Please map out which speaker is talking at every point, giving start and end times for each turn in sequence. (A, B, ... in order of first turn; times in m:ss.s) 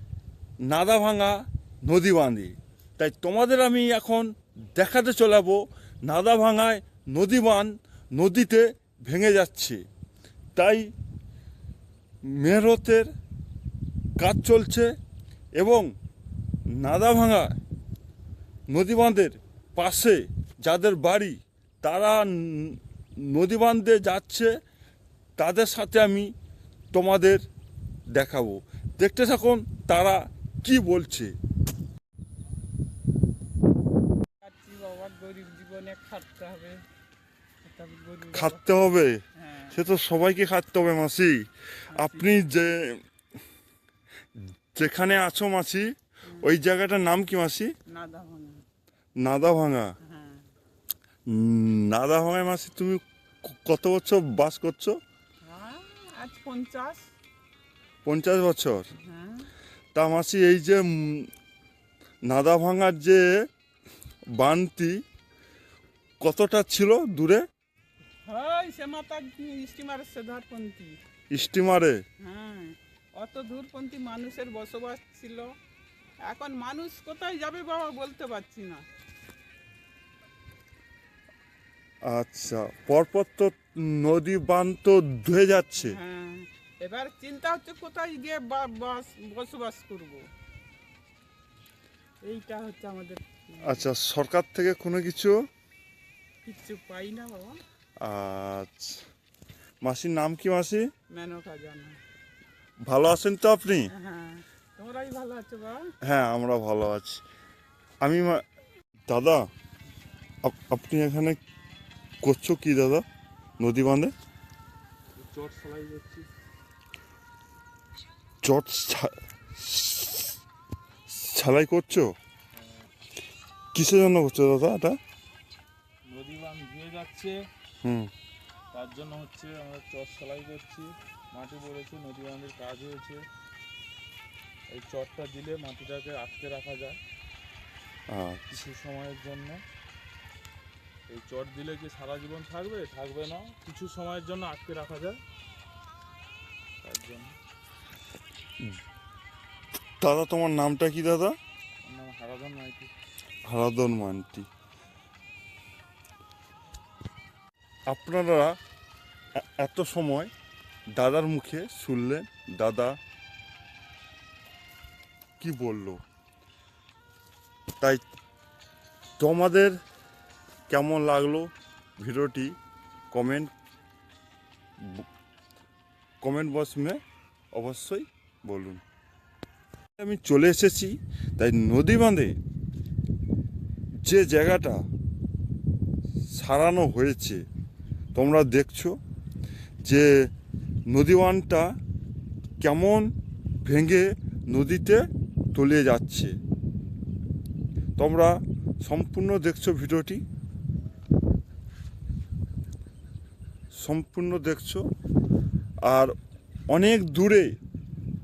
0:00.6-0:09.8 A
0:10.5-0:10.9 A
0:12.2-0:13.1 A
0:14.2-0:14.9 A
0:15.6-0:15.9 A
0:16.7-0:17.5 A
0:18.7-0:24.6 A
0:25.4-0:26.3 A
0:26.9-0:27.4 A
0:28.1-0:31.3 A
0:34.4-0:36.8 B
0:37.6-0:38.6 B
0:38.3-0:43.0 A
0:39.4-0:39.8 B
0:41.9-0:42.3 B
0:44.7-0:47.7 A
0:47.9-0:48.6 B
0:49.2-0:49.9 A
0:50.0-0:50.4 B
0:51.3-0:55.0 A
0:55.4-0:57.1 B
0:58.0-0:58.9 A
0:59.0-0:59.5 B
0:59.9-1:01.3 A
1:02.2-1:03.4 A
1:04.3-1:05.0 A
1:06.2-1:07.4 A
1:08.2-1:11.0 B
1:11.3-1:12.0 A
1:12.2-1:15.5 B
1:16.2-1:18.8 B
1:22.0-1:26.0 A
1:25.9-1:30.3 B
1:32.2-1:33.8 B
1:33.6-1:35.4 A
1:36.4-1:37.6 B
1:38.0-1:39.0 A
1:39.8-1:40.9 A
1:41.1-1:42.0 B
1:42.8-1:43.9 A
1:43.9-1:45.9 B
1:46.0-1:47.2 A
1:48.0-1:48.4 A
1:49.1-1:49.5 A
1:50.4-1:51.4 A
1:52.2-1:53.0 A
1:53.6-1:54.1 A
1:55.2-1:56.3 C
1:58.4-2:00.4 A
2:01.1-2:02.1 A
2:02.5-2:02.9 C
2:03.7-2:05.0 A
2:06.1-2:07.4 C
2:07.8-2:08.1 A
2:08.7-2:13.2 C
2:14.7-2:17.0 C
2:18.1-2:18.4 A
2:18.5-2:19.6 C
2:21.1-2:25.2 C
2:26.8-2:27.4 C
2:30.0-2:31.4 A
2:31.8-2:32.9 C
2:33.4-2:34.5 A
2:37.9-2:38.6 A
2:39.4-2:40.3 A
2:40.9-2:43.0 A
2:45.4-2:46.0 A
2:49.2-2:49.8 A
2:50.7-2:52.6 A
2:53.1-2:53.5 A
2:54.8-2:55.0 A
2:56.2-2:57.0 A
2:57.5-2:58.8 A
3:00.0-3:02.4 A
3:04.0-3:04.9 A
3:06.3-3:07.4 A
3:08.1-3:09.0 A
3:09.8-3:10.3 A
3:10.8-3:11.8 A
3:12.6-3:13.1 A
3:13.6-3:16.4 A
3:18.0-3:20.2 A
3:23.7-3:24.8 A
3:25.8-3:26.1 A
3:26.7-3:27.6 A